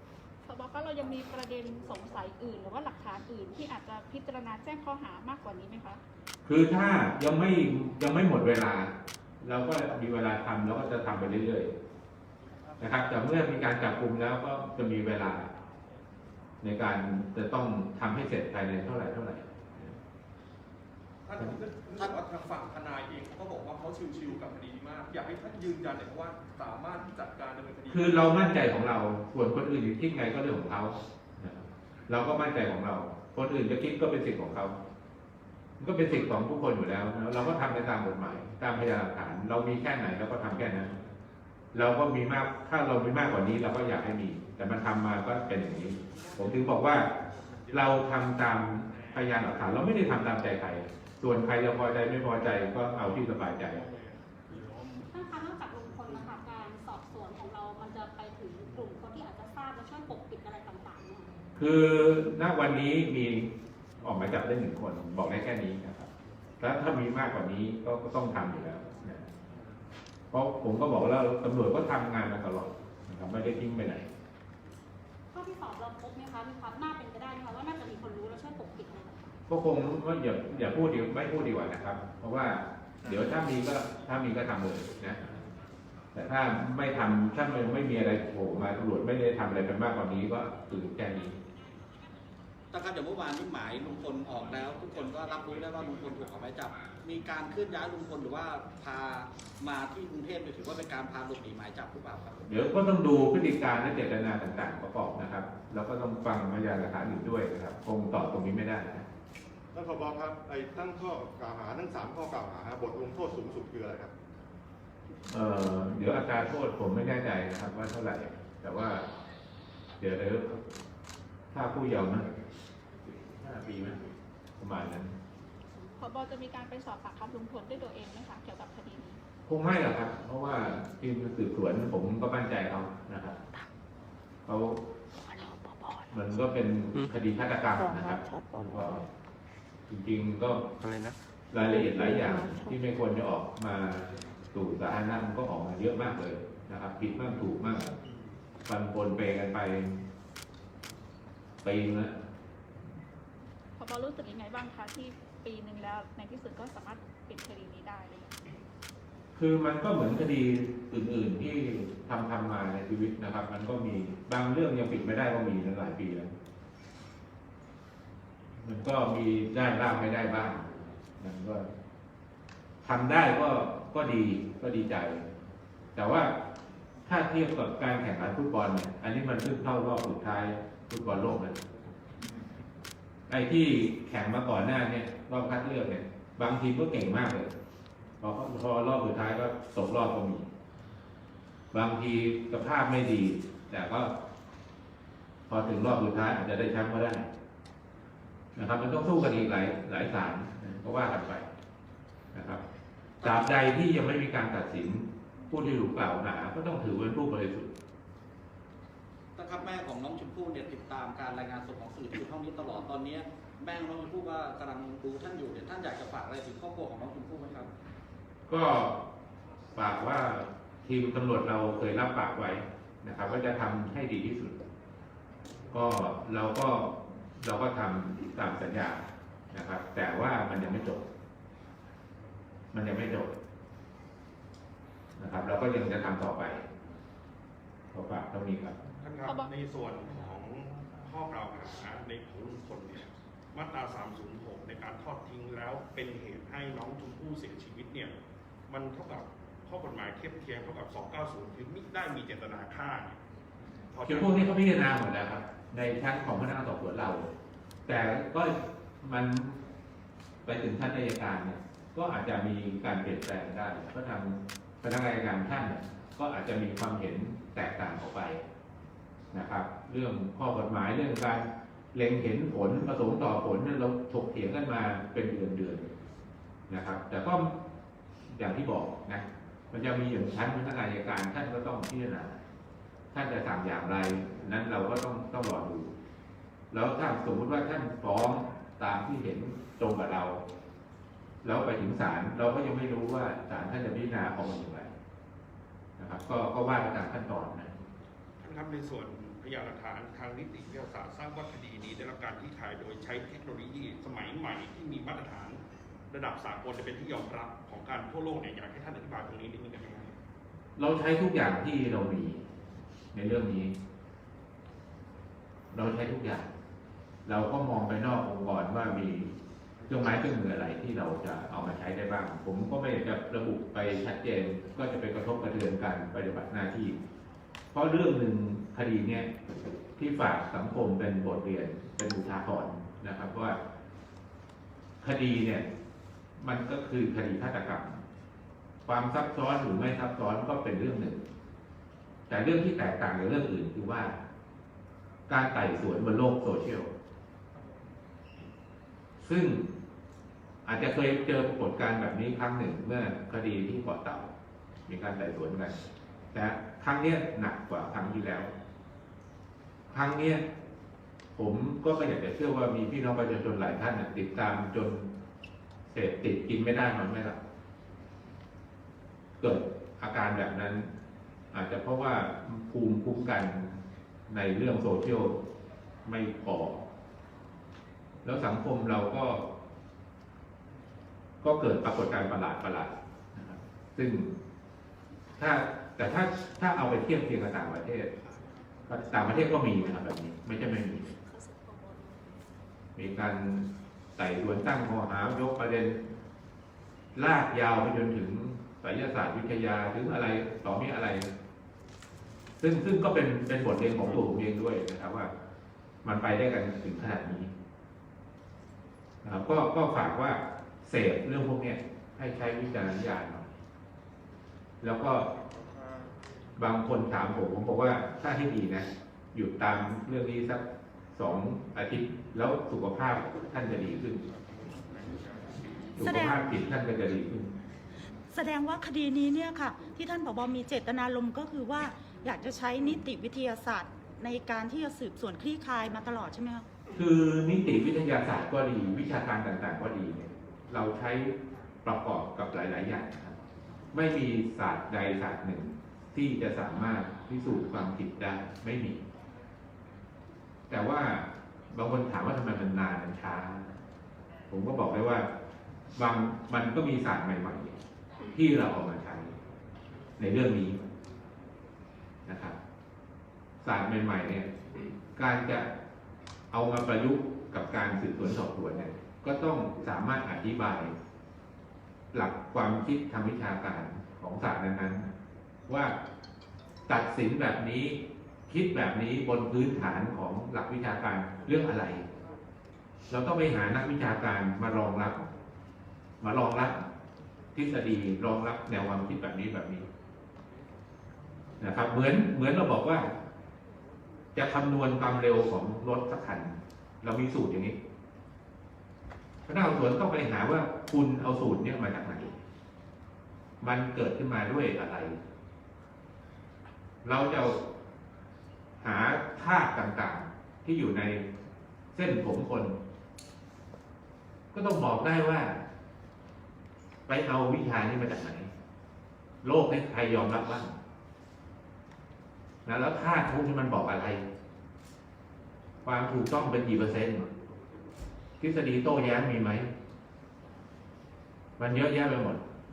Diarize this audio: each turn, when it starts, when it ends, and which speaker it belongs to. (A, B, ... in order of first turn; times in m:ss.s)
0:00.5-0:06.0 A
0:06.4-0:11.7 B
0:12.8-0:15.5 B
0:16.6-0:19.8 B
0:21.2-0:28.6 C
0:27.9-0:34.8 B
0:35.8-0:40.9 B
0:41.7-0:47.1 B
0:47.7-0:53.8 B
0:55.1-1:01.3 D
1:01.6-1:03.5 B
1:04.0-1:06.1 B
1:06.6-1:09.2 B
1:10.3-1:14.1 B
1:15.3-1:19.3 D
1:19.5-1:25.2 B
1:26.1-1:31.4 B
1:32.7-1:42.6 E
1:42.4-1:49.0 B
1:49.7-1:54.1 F
1:55.3-1:59.0 B
2:00.0-2:00.6 B
2:01.5-2:02.3 B
2:03.2-2:04.0 B
2:04.6-2:05.1 B
2:06.0-2:09.2 A
2:09.5-2:13.4 B
2:14.4-2:14.8 B
2:16.1-2:19.0 B
2:19.9-2:20.7 B
2:21.5-2:27.9 B
2:28.6-2:30.0 B
2:31.6-2:32.1 B
2:33.8-2:38.3 A
2:39.3-2:46.3 B
2:48.6-2:51.7 B
2:52.8-2:55.2 B
2:56.0-2:56.3 B
2:57.0-3:01.6 B
3:03.3-3:07.5 B
3:08.2-3:10.5 B
3:11.7-3:14.1 B
3:15.5-3:17.3 B
3:18.6-3:21.5 B
3:22.3-3:22.6 B
3:23.2-3:23.6 E
3:23.2-3:27.7 B
3:29.4-3:37.7 E
3:38.5-3:39.0 B
3:39.8-3:44.6 B
3:45.7-3:49.0 B
3:49.5-3:51.1 B
3:52.7-3:53.3 B
3:55.2-3:56.6 B
3:57.9-3:58.8 B
3:59.0-4:08.1 G
3:59.2-3:59.5 A
4:08.7-4:13.2 G
4:13.9-4:14.5 G
4:14.0-4:17.3 B
4:17.9-4:19.6 B
4:20.4-4:28.4 B
4:29.3-4:35.9 B
4:36.7-4:37.5 B
4:38.3-4:42.4 B
4:43.1-4:45.9 B
4:46.7-4:50.4 B
4:51.4-4:54.9 B
4:56.0-4:57.8 B
4:58.4-5:10.1 G
5:10.8-5:12.4 B
5:13.1-5:13.7 B
5:15.7-5:16.5 B
5:17.2-5:19.3 B
5:19.9-5:27.0 B
5:27.7-5:33.6 B
5:35.0-5:35.7 B
5:36.4-5:38.0 B
5:38.8-5:41.2 B
5:42.3-5:44.1 B
5:45.3-5:46.9 B
5:49.2-5:49.7 B
5:50.6-5:54.3 B
5:54.9-5:55.8 B
5:56.3-5:58.5 B
5:59.9-6:00.4 B
6:01.4-6:05.1 B
6:05.9-6:07.4 B
6:09.4-6:10.9 B
6:11.5-6:15.4 B
6:16.0-6:16.8 B
6:18.2-6:19.4 B
6:21.4-6:24.3 B
6:25.4-6:28.1 B
6:28.9-6:31.1 B
6:33.0-6:36.0 B
6:37.2-6:41.3 B
6:42.6-6:45.3 B
6:46.0-6:47.5 B
6:49.2-6:53.5 B
6:54.8-6:55.3 B
6:56.6-7:00.6 B
7:01.1-7:04.2 B
7:06.0-7:07.5 B
7:06.0-7:06.4 H
7:08.3-7:16.7 H
7:16.9-7:23.4 B
7:23.9-7:29.0 B
7:30.7-7:33.8 B
7:34.5-7:35.3 B
7:36.0-7:37.8 B
7:38.3-7:39.3 B
7:40.2-7:40.8 B
7:42.2-7:42.6 B
7:43.6-7:44.5 B
7:45.2-7:45.7 B
7:46.5-7:50.9 B
7:52.1-7:55.0 B
7:55.7-7:55.9 B
7:56.9-8:02.0 B
8:03.1-8:05.3 B
8:06.2-8:06.8 B
8:07.5-8:09.8 B
8:11.6-8:13.1 B
8:14.3-8:17.8 B
8:19.4-8:22.3 B
8:23.6-8:25.2 B
8:27.0-8:27.6 B
8:28.8-8:31.2 B
8:31.9-8:32.8 B
8:34.5-8:35.6 B
8:37.1-8:38.5 B
8:39.4-8:40.8 B
8:42.6-8:44.2 B
8:45.8-8:47.3 B
8:48.4-8:49.7 B
8:51.6-8:52.4 B